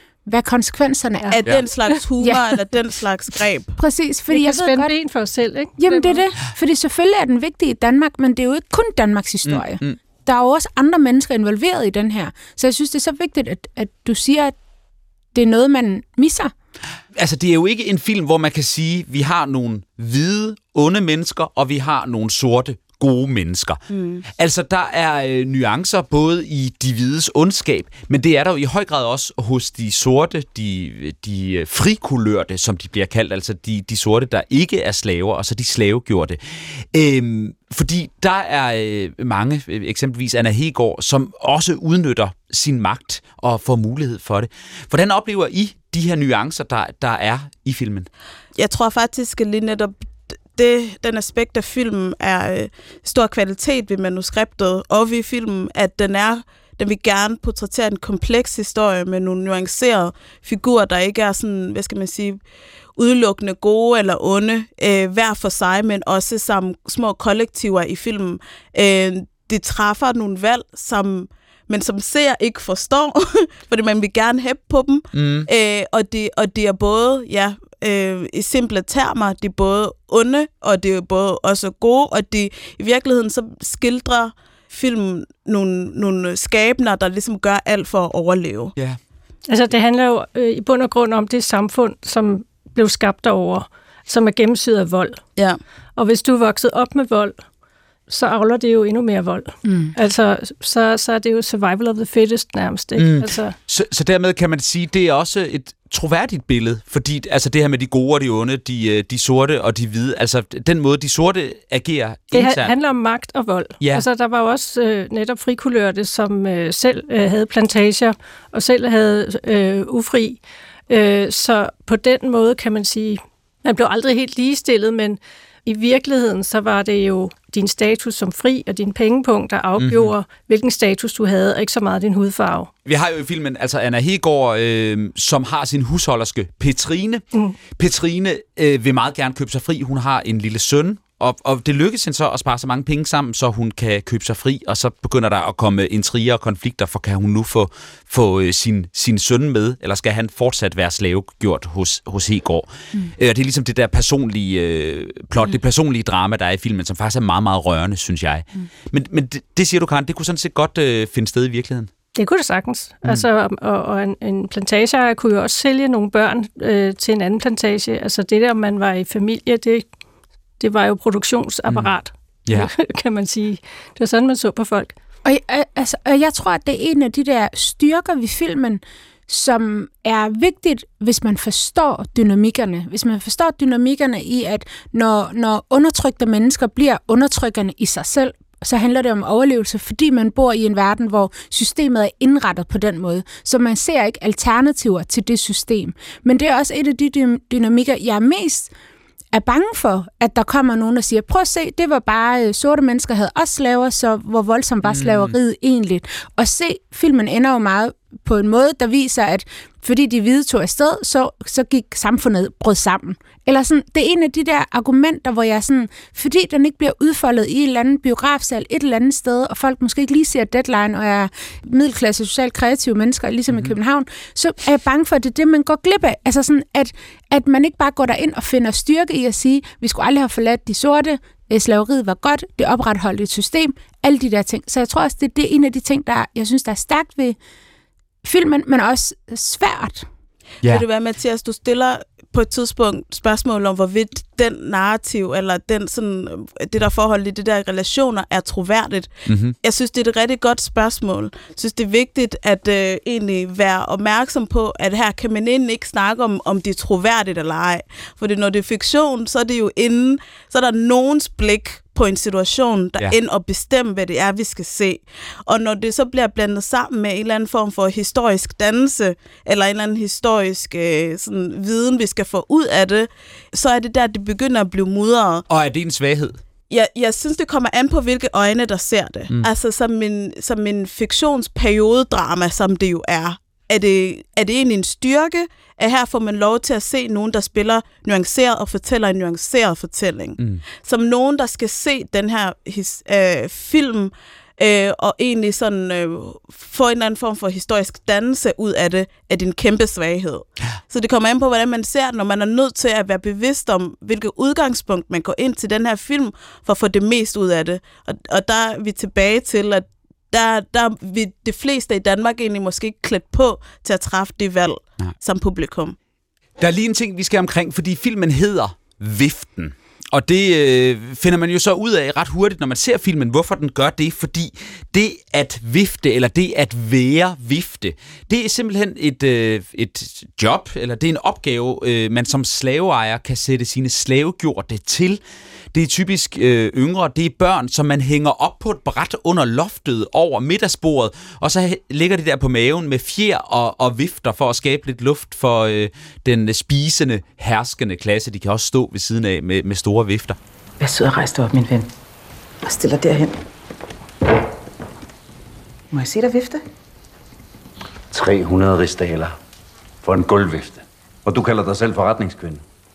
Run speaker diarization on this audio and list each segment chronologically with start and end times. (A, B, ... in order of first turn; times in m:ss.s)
0:00.2-0:01.4 A
0:01.3-0:03.8 B
0:02.2-0:02.5 A
0:03.8-0:04.9 A
0:04.3-0:06.2 C
0:05.8-0:14.5 A
0:09.4-0:10.0 D
0:15.3-0:16.5 A
0:17.1-0:48.1 D
0:23.9-0:24.2 B
0:48.6-0:49.9 B
0:50.5-1:02.4 B
1:03.0-1:28.7 B
1:15.1-1:15.5 D
1:29.5-1:35.2 C
1:36.0-1:37.4 C
1:38.1-1:43.5 C
1:43.0-1:52.7 D
1:52.3-2:12.7 C
1:53.8-1:54.0 D
2:09.8-2:10.1 D
2:12.8-2:17.2 D
2:17.8-2:41.9 D
2:42.1-2:49.8 C
2:50.6-2:54.9 C
2:51.7-2:51.9 D
2:55.2-3:18.7 A
3:19.3-3:57.4 A
3:24.8-3:25.3 D
3:43.5-3:43.8 D
3:58.2-4:00.1 A
4:00.7-4:09.1 B
4:09.3-4:09.5 D
4:09.6-4:35.4 B
4:35.5-4:36.4 D
4:36.7-5:16.0 B
5:16.6-5:35.2 D
5:35.7-5:50.4 D
5:50.8-5:51.9 E
5:52.6-5:53.3 E
5:55.9-5:56.6 E
5:58.1-5:59.3 F
6:00.0-6:02.6 F